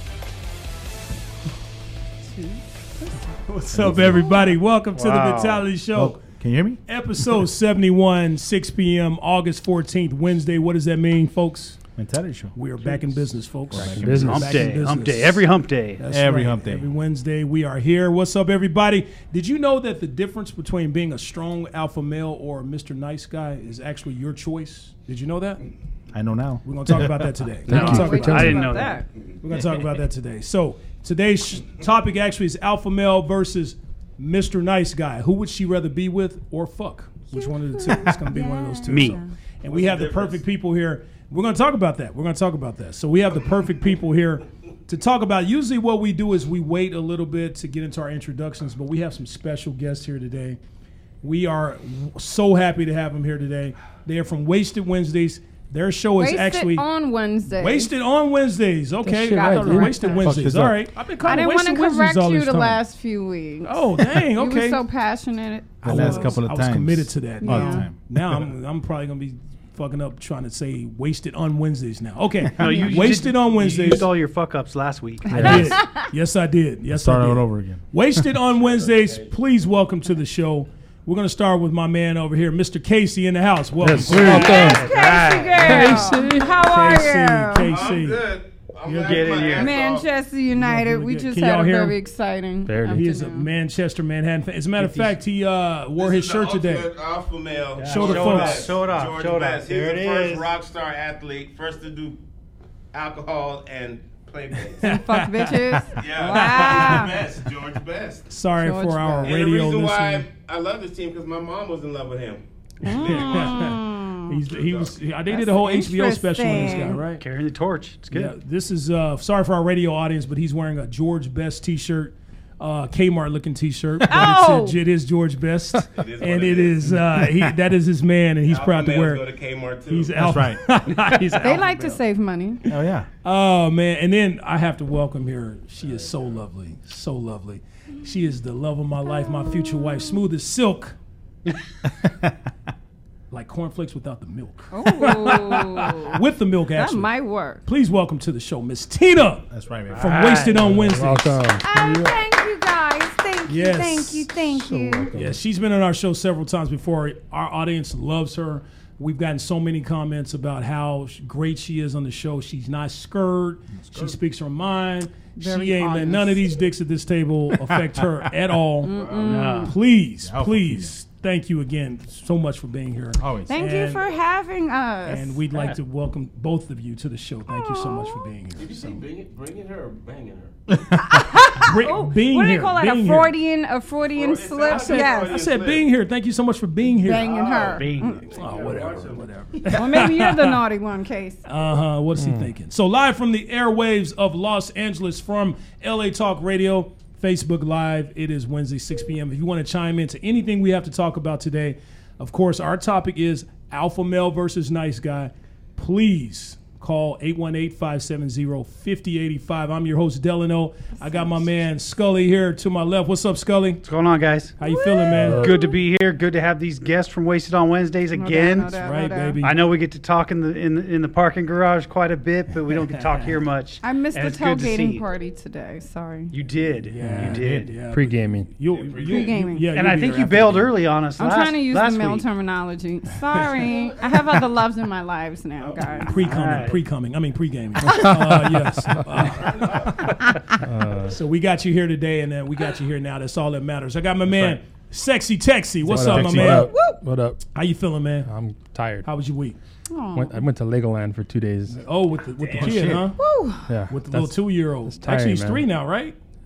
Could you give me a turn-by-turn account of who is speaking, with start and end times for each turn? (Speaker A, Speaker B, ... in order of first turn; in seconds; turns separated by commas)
Speaker A: 2.3-2.6, Speaker B: 3.7-6.2, Speaker C: 3.7-4.3, Speaker D: 4.9-5.7, Speaker C: 5.9-6.8, Speaker B: 6.9-11.8, Speaker C: 11.9-12.9, Speaker B: 12.5-25.6, Speaker C: 13.7-14.6, Speaker D: 13.8-16.0, Speaker C: 16.1-16.9, Speaker C: 26.1-27.5, Speaker B: 26.6-28.7, Speaker E: 27.7-28.8, Speaker D: 27.7-29.0, Speaker A: 27.7-29.1, Speaker B: 29.4-50.6, Speaker A: 37.3-39.3, Speaker D: 38.9-39.2, Speaker F: 39.6-40.4, Speaker B: 51.2-56.9, Speaker A: 56.2-57.9, Speaker B: 57.5-62.8, Speaker E: 59.0-60.5, Speaker A: 59.3-60.2, Speaker C: 60.2-60.8, Speaker A: 61.2-63.8, Speaker B: 63.6-64.8, Speaker A: 64.3-66.4, Speaker B: 65.8-74.1, Speaker C: 65.8-68.4, Speaker A: 67.4-67.8, Speaker D: 72.6-75.5, Speaker A: 75.3-76.1, Speaker E: 75.3-75.6, Speaker B: 75.3-84.8, Speaker C: 76.9-78.2, Speaker F: 78.6-79.3, Speaker E: 83.8-85.0, Speaker D: 84.0-86.0, Speaker A: 84.2-87.7, Speaker E: 85.5-86.7, Speaker B: 85.6-88.2, Speaker F: 87.7-90.1, Speaker D: 88.8-89.7, Speaker B: 89.0-89.3, Speaker A: 89.5-93.5, Speaker B: 90.5-92.0, Speaker E: 92.7-93.1, Speaker B: 92.9-96.9, Speaker D: 94.8-95.1, Speaker F: 96.0-102.2, Speaker D: 97.8-100.5, Speaker B: 97.8-98.7, Speaker F: 102.9-105.0, Speaker A: 104.8-107.1, Speaker B: 104.8-105.5, Speaker F: 106.0-108.3, Speaker B: 106.3-107.1, Speaker B: 108.3-110.2, Speaker A: 108.5-109.4, Speaker F: 109.2-113.8, Speaker A: 112.8-114.3, Speaker B: 112.9-117.2, Speaker F: 114.5-115.0, Speaker A: 115.3-117.0, Speaker D: 117.1-118.3, Speaker B: 118.1-129.3, Speaker A: 124.1-124.8, Speaker F: 125.9-127.0, Speaker F: 128.4-130.2, Speaker B: 129.9-131.9, Speaker C: 130.1-130.7, Speaker A: 131.4-132.6, Speaker C: 132.7-133.1, Speaker B: 133.2-140.9, Speaker F: 135.8-136.4, Speaker A: 139.2-140.0, Speaker C: 141.8-142.3, Speaker B: 143.3-147.1, Speaker A: 144.7-146.2, Speaker A: 146.8-147.6, Speaker B: 147.6-151.6, Speaker C: 149.5-150.8, Speaker D: 149.9-150.8, Speaker E: 150.7-151.8, Speaker A: 151.6-155.1, Speaker B: 153.5-154.4, Speaker E: 154.6-155.4, Speaker B: 155.1-174.1, Speaker C: 163.8-164.2, Speaker A: 165.3-166.4, Speaker C: 167.7-168.2, Speaker A: 168.8-169.7, Speaker F: 168.9-169.4, Speaker D: 169.2-169.7, Speaker C: 170.2-170.9, Speaker C: 173.2-173.6, Speaker A: 173.5-175.4, Speaker B: 175.0-178.9, Speaker A: 177.5-178.3, Speaker F: 178.6-180.6, Speaker A: 181.0-185.3, Speaker B: 181.5-183.3, Speaker F: 184.1-185.8, Speaker B: 184.7-187.3, Speaker A: 187.0-188.3, Speaker F: 187.2-190.0, Speaker D: 187.6-188.2, Speaker B: 188.3-190.6, Speaker A: 189.7-191.4, Speaker B: 191.5-213.8, Speaker E: 192.2-192.5, Speaker A: 211.0-211.3, Speaker D: 213.8-214.5, Speaker B: 214.6-215.4, Speaker A: 214.6-215.8, Speaker D: 215.2-218.8, Speaker A: 218.1-219.4, Speaker B: 218.7-219.6, Speaker D: 219.4-225.0, Speaker B: 222.9-223.4, Speaker A: 223.8-226.3, Speaker D: 226.3-227.7, Speaker B: 226.9-230.7, Speaker E: 227.0-228.6, Speaker F: 228.7-229.4, Speaker A: 229.1-229.7, Speaker D: 229.7-232.2, Speaker A: 231.2-236.1, Speaker F: 233.6-233.9, Speaker F: 235.6-236.2, Speaker B: 236.1-240.4, Speaker D: 236.2-236.8, Speaker F: 239.2-240.1, Speaker E: 240.6-241.2, Speaker B: 241.1-246.7, Speaker C: 244.3-244.6, Speaker E: 245.8-247.4, Speaker C: 245.9-246.7, Speaker A: 246.5-247.0, Speaker B: 247.5-248.3, Speaker E: 248.2-249.1, Speaker B: 249.0-249.6, Speaker A: 249.9-250.4, Speaker E: 250.1-251.8, Speaker B: 251.7-253.2, Speaker C: 252.4-253.1, Speaker A: 253.2-253.7, Speaker E: 253.7-255.7, Speaker B: 253.9-256.1